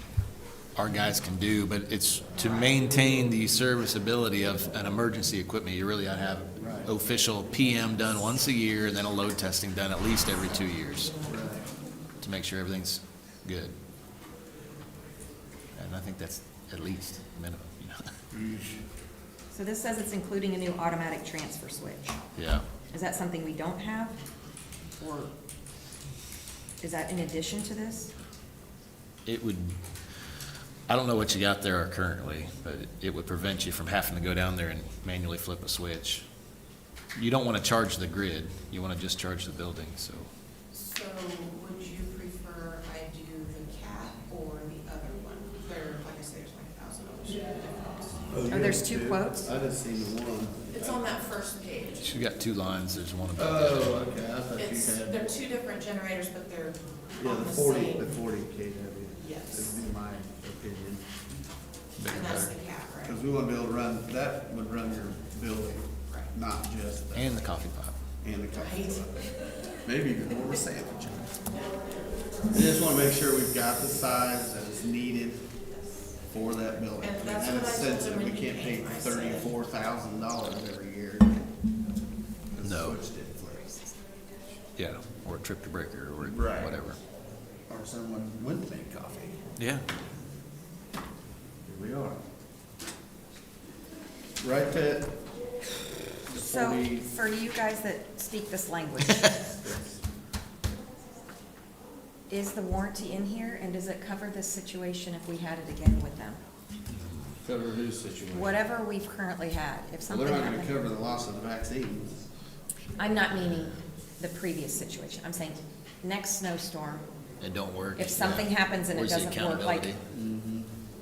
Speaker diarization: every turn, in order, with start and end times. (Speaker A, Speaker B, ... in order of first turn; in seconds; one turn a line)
Speaker A: 0.8-11.1
Speaker B: 2.4-2.7
Speaker C: 6.6-6.9
Speaker C: 11.2-11.7
Speaker A: 12.2-13.7
Speaker A: 15.7-18.1
Speaker C: 18.3-18.8
Speaker D: 19.5-22.2
Speaker A: 22.4-22.6
Speaker D: 22.9-24.2
Speaker D: 25.0-25.3
Speaker D: 26.8-28.1
Speaker A: 29.2-29.8
Speaker A: 30.9-36.2
Speaker A: 37.1-40.3
Speaker B: 40.7-48.3
Speaker C: 48.3-51.1
Speaker D: 48.5-49.5
Speaker B: 50.7-52.1
Speaker A: 52.0-54.0
Speaker C: 53.4-55.3
Speaker B: 54.5-58.1
Speaker C: 57.2-61.0
Speaker B: 59.2-59.8
Speaker A: 62.0-62.5
Speaker B: 62.0-63.2
Speaker C: 63.0-67.4
Speaker A: 67.1-68.0
Speaker C: 68.2-69.3
Speaker B: 68.5-69.1
Speaker C: 69.8-71.3
Speaker C: 72.5-75.5
Speaker C: 76.3-81.4
Speaker B: 77.0-79.5
Speaker C: 82.5-83.7
Speaker A: 82.6-83.0
Speaker A: 84.8-87.0
Speaker C: 86.2-86.8
Speaker C: 87.7-89.4
Speaker A: 89.6-89.8
Speaker C: 91.7-92.2
Speaker C: 94.4-95.2
Speaker C: 96.3-97.1
Speaker D: 96.3-99.4
Speaker C: 99.6-100.0
Speaker D: 102.3-106.4
Speaker A: 107.0-107.3
Speaker C: 107.4-108.6
Speaker D: 108.3-110.7
Speaker C: 110.1-112.2
Speaker D: 113.0-117.1
Speaker A: 117.4-120.0
Speaker D: 118.0-119.9
Speaker C: 120.1-120.7